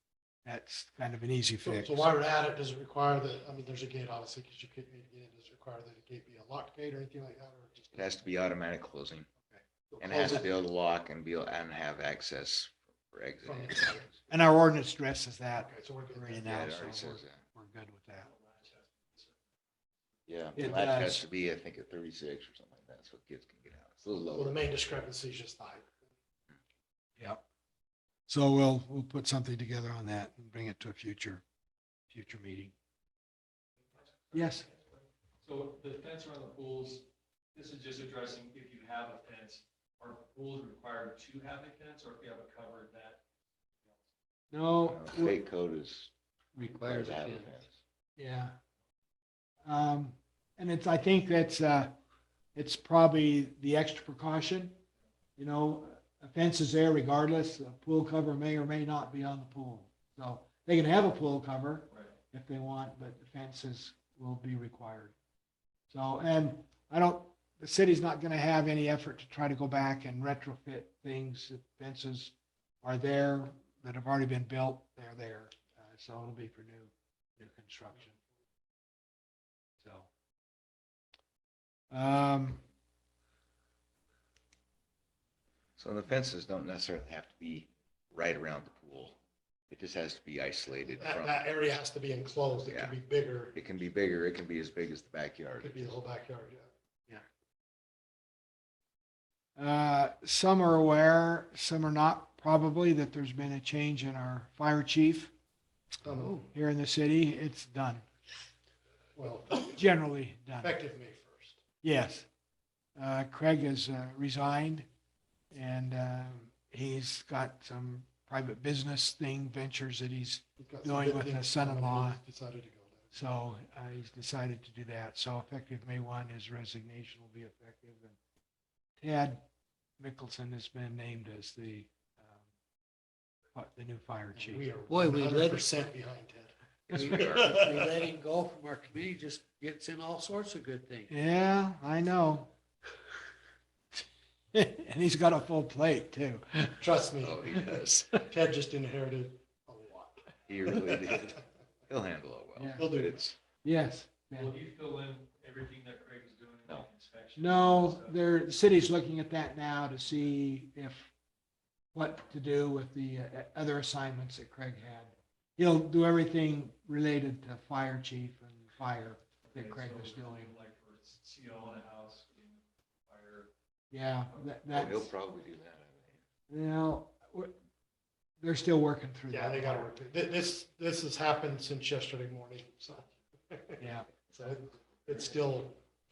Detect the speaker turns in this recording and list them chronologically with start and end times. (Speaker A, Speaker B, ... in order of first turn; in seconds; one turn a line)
Speaker A: 0.4-2.1
Speaker B: 1.6-8.2
Speaker C: 7.9-9.3
Speaker B: 9.5-10.6
Speaker C: 10.0-14.1
Speaker B: 13.4-14.1
Speaker A: 14.3-18.3
Speaker B: 15.7-16.6
Speaker C: 16.4-17.4
Speaker D: 18.2-19.4
Speaker C: 20.3-24.6
Speaker A: 20.6-21.2
Speaker B: 24.3-25.9
Speaker A: 27.2-27.4
Speaker A: 28.3-31.4
Speaker A: 32.1-32.7
Speaker D: 34.3-34.7
Speaker A: 34.3-34.7
Speaker D: 35.4-43.2
Speaker A: 44.5-45.4
Speaker C: 44.8-47.8
Speaker E: 46.5-47.5
Speaker A: 48.2-48.5
Speaker A: 49.6-51.9
Speaker A: 52.5-54.8
Speaker A: 55.4-65.1
Speaker A: 65.9-78.2
Speaker A: 79.8-80.1
Speaker A: 81.9-82.6
Speaker C: 85.8-89.2
Speaker C: 89.7-91.4
Speaker B: 91.0-93.5
Speaker C: 92.7-93.0
Speaker C: 93.5-95.9
Speaker B: 95.6-96.7
Speaker A: 99.5-105.3
Speaker B: 106.0-106.5
Speaker E: 106.1-106.5
Speaker A: 106.5-108.0
Speaker B: 109.2-109.8
Speaker A: 109.7-110.7
Speaker B: 110.6-111.6
Speaker A: 111.8-112.3
Speaker A: 113.0-114.9
Speaker A: 115.5-122.2
Speaker B: 120.6-123.1
Speaker A: 123.1-128.2
Speaker A: 129.0-129.4
Speaker A: 130.0-132.4
Speaker A: 133.5-134.6
Speaker B: 134.3-136.5
Speaker E: 134.9-135.7
Speaker A: 136.9-137.4
Speaker E: 136.9-141.1
Speaker C: 136.9-137.6
Speaker A: 141.1-142.5
Speaker A: 144.5-146.8
Speaker B: 146.8-151.2
Speaker C: 147.2-147.9
Speaker C: 150.5-153.3
Speaker A: 152.6-152.9
Speaker B: 152.8-153.3
Speaker A: 153.6-154.5
Speaker D: 154.3-158.2
Speaker A: 157.4-161.1
Speaker A: 161.9-170.5
Speaker D: 169.5-173.5
Speaker A: 173.9-175.1
Speaker D: 174.2-174.7
Speaker C: 174.7-176.2
Speaker A: 176.5-177.5
Speaker A: 178.4-179.9
Speaker B: 179.3-185.8
Speaker A: 183.8-184.1